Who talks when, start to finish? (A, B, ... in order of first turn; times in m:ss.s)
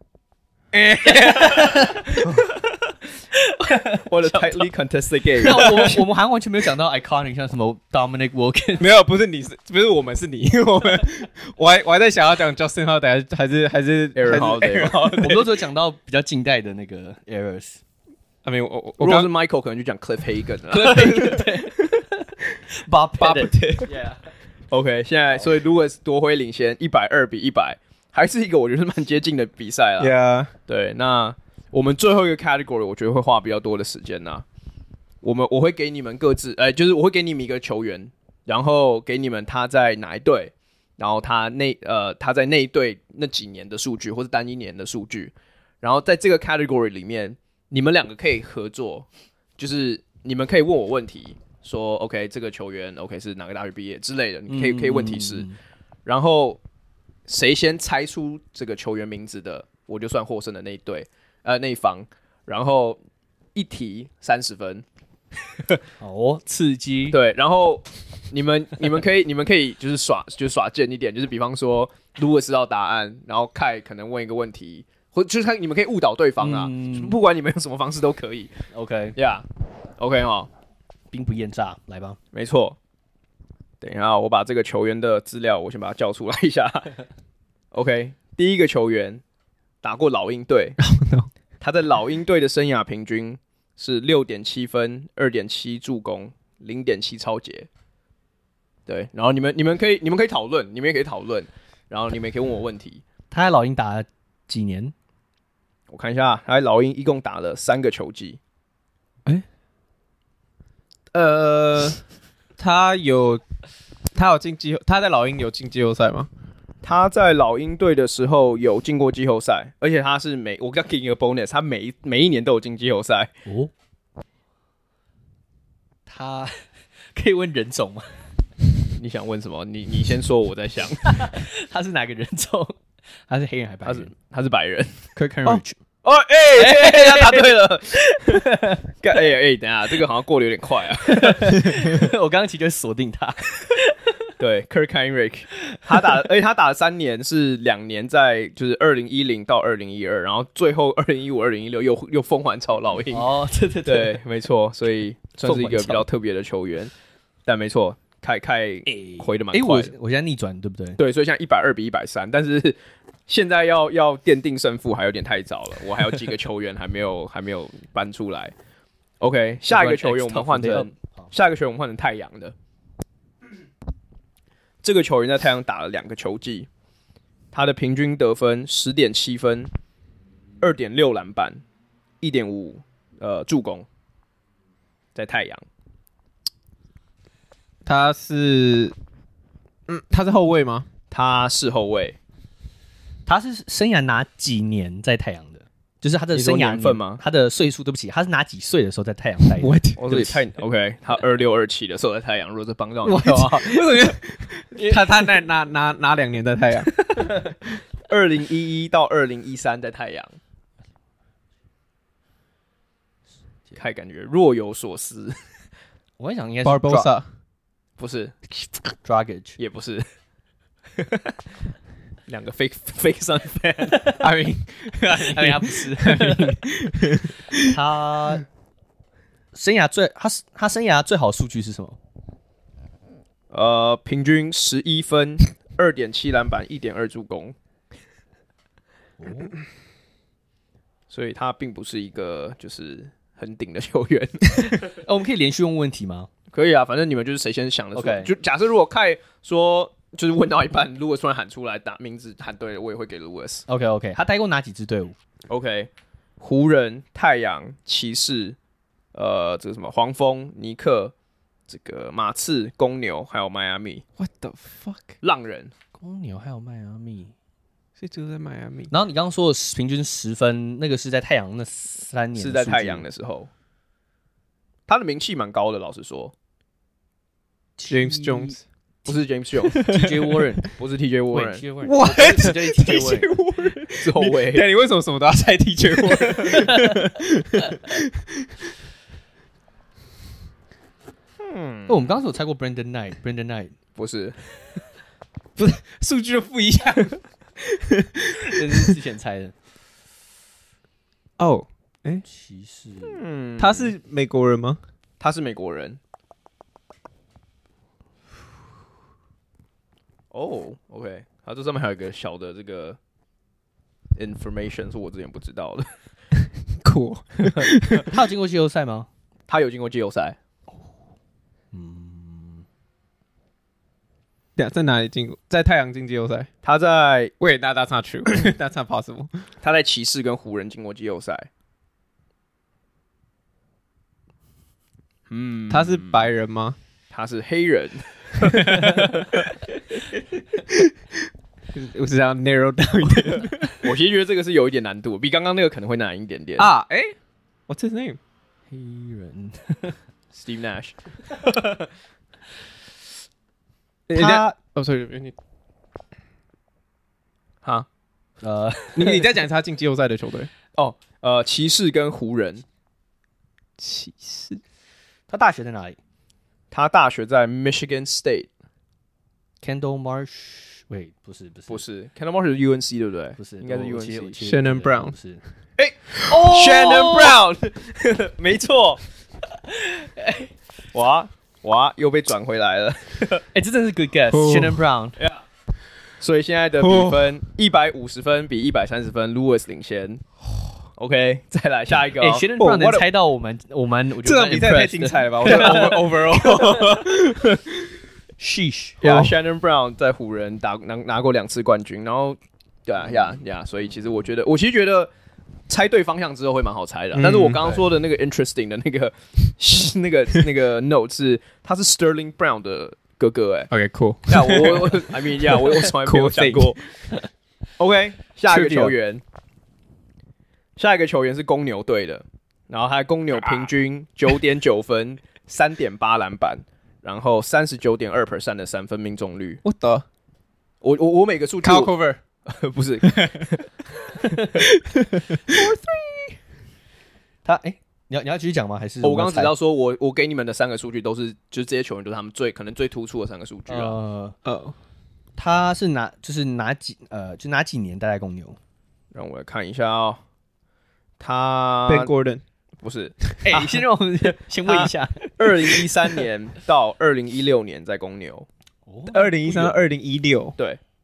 0:00.8-0:02.3 A
0:01.0-0:02.5 B
0:03.4-0:04.7 A
0:04.1-0:06.0 C
0:05.4-0:08.9 A
0:05.6-0:05.9 B
0:08.8-0:15.5 B
0:14.2-0:15.2 C
0:15.2-0:17.8 A
0:18.4-0:19.3 B
0:19.0-0:21.4 C
0:20.7-0:24.2 A
0:23.2-0:23.9 B
0:24.7-0:30.1 C
0:30.0-0:30.5 B
0:30.7-0:34.4 C
0:35.2-0:49.1 C
0:49.6-0:55.5 C
0:54.5-0:55.6 A
0:56.1-0:56.6 C
0:57.3-1:03.0 C
1:03.6-1:04.8 C
1:06.0-1:07.2 A
1:07.1-1:18.5 C
1:16.4-1:17.2 A
1:18.7-1:19.2 A
1:19.2-1:19.5 C
1:20.0-1:20.5 C
1:21.1-1:22.2 A
1:22.3-1:22.8 C
1:23.8-1:27.0 C
1:27.7-1:29.2 C
1:29.8-1:30.8 C
1:30.8-1:31.3 B
1:31.6-1:37.7 C
1:38.9-1:43.0 C
1:43.3-1:44.9 A
1:45.9-1:48.4 C
1:51.1-1:52.0 B
1:52.6-1:53.4 B
1:54.1-1:56.3 B
1:56.8-2:03.3 C
2:03.5-2:03.7 A
2:06.1-2:08.2 A
2:09.0-2:11.4 C
2:11.0-2:14.1 A
2:13.9-2:15.1 C
2:15.2-2:15.8 A
2:16.0-2:21.6 C
2:16.5-2:18.8 A
2:21.0-2:24.3 A
2:24.4-2:33.3 C
2:25.7-2:26.0 A
2:33.1-2:34.2 A
2:33.9-2:36.9 C
2:35.4-2:36.1 A
2:37.5-2:39.9 C
2:38.9-2:41.0 A
2:41.0-2:48.5 C
2:49.2-2:52.5 C
2:49.7-2:51.3 A
2:54.8-2:56.7 C
2:57.5-2:59.7 C
3:00.6-3:01.6 C
3:02.2-3:03.9 C
3:05.2-3:05.6 C
3:07.8-3:09.0 B
3:09.9-3:10.9 B
3:11.1-3:12.2 C
3:13.3-3:20.4 A
3:16.3-3:17.2 C
3:19.6-3:20.0 B
3:20.0-3:24.1 C
3:23.0-3:26.9 B
3:24.8-3:25.0 A
3:28.1-3:30.4 C
3:33.8-3:35.4 C
3:36.2-3:37.1 A
3:36.6-3:37.3 B
3:38.0-3:38.4 C
3:39.0-3:39.6 A
3:39.6-3:40.1 C
3:41.0-3:41.3 C
3:42.3-3:44.1 C
3:44.2-3:47.7 B
3:45.2-3:46.6 A
3:47.6-3:48.5 A
3:49.5-3:52.0 A
3:53.5-3:57.6 C
3:59.2-3:59.6 A
4:01.1-4:05.0 C
4:05.0-4:06.3 A
4:06.5-4:13.7 C
4:08.0-4:08.3 A
4:13.7-4:15.2 A
4:15.5-4:18.6 C
4:19.1-4:21.1 C
4:21.7-4:24.0 C
4:24.2-4:25.2 B
4:25.2-4:25.7 C
4:26.0-4:27.3 A
4:28.0-4:28.9 B
4:28.9-4:33.1 A
4:32.4-4:33.5 C
4:34.9-4:36.3 C
4:37.8-4:38.6 A
4:37.9-4:38.6 B
4:39.1-4:40.0 C
4:39.6-4:40.4 B
4:39.8-4:40.7 A
4:40.7-4:41.6 C
4:41.3-4:43.3 A
4:41.8-4:48.7 B
4:44.0-4:44.7 C
4:46.3-4:47.0 A
4:51.4-4:52.1 C
4:51.9-4:53.8 A
4:54.0-4:54.4 C
4:55.6-4:58.9 B
4:58.5-4:59.5 A
5:01.4-5:02.2 B
5:02.2-5:03.2 A
5:03.1-5:03.9 C
5:03.6-5:04.8 B
5:05.2-5:06.0 C
5:10.3-5:13.0 C
5:14.2-5:15.9 C
5:16.4-5:18.1 B
5:17.4-5:18.0 C
5:18.0-5:19.1 A
5:19.5-5:20.4 C
5:21.7-5:22.6 A
5:24.6-5:26.5 B
5:26.6-5:27.3 C
5:27.4-5:29.4 B
5:29.6-5:31.5 C
5:35.3-5:36.3 C
5:35.7-5:36.8 B
5:37.1-5:39.5 C
5:38.4-5:39.4 B
5:40.7-5:43.9 B
5:43.8-5:46.7 C
5:46.6-5:47.2 B
5:47.7-5:48.2 B
5:48.7-5:50.0 A
5:50.3-5:51.9 C
5:54.1-5:55.4 B
5:54.2-5:54.5 A
5:58.4-5:59.3 A
5:59.0-6:00.5 B
6:00.8-6:02.6 C
6:03.8-6:04.6 B
6:05.3-6:06.0 A
6:06.7-6:08.5 C
6:09.6-6:11.8 A
6:11.7-6:14.4 C
6:13.4-6:15.4 A
6:14.4-6:15.2 B
6:15.8-6:19.0 C
6:16.3-6:17.4 A
6:19.7-6:20.5 A
6:20.9-6:23.4 C
6:23.5-6:25.2 A
6:24.3-6:24.8 B
6:25.2-6:25.4 C
6:26.2-6:30.2 C
6:26.8-6:27.4 B
6:31.0-6:32.5 C
6:32.2-6:36.4 A
6:32.6-6:33.1 B
6:34.2-6:38.0 B
6:35.4-6:36.0 C
6:38.4-6:39.2 A
6:39.0-6:45.1 C
6:39.0-6:39.3 B
6:45.7-6:53.7 C
6:47.1-6:47.8 B
6:53.7-6:56.8 B
6:54.3-6:56.8 C
6:57.8-6:59.2 C
6:58.5-6:59.0 A
7:00.8-7:09.6 C
7:09.6-7:10.1 B
7:10.8-7:11.9 C
7:11.6-7:12.2 B
7:12.5-7:14.4 C
7:13.0-7:13.4 B
7:14.6-7:16.3 B
7:17.4-7:19.5 A
7:19.0-7:24.0 C
7:23.7-7:24.4 A
7:24.4-7:24.8 B
7:25.4-7:28.6 A
7:29.1-7:30.2 C
7:31.2-7:32.1 C
7:31.9-7:32.4 B
7:32.8-7:33.8 C
7:33.4-7:36.2 A
7:34.7-7:38.5 C
7:38.9-7:39.7 A
7:39.1-7:40.6 B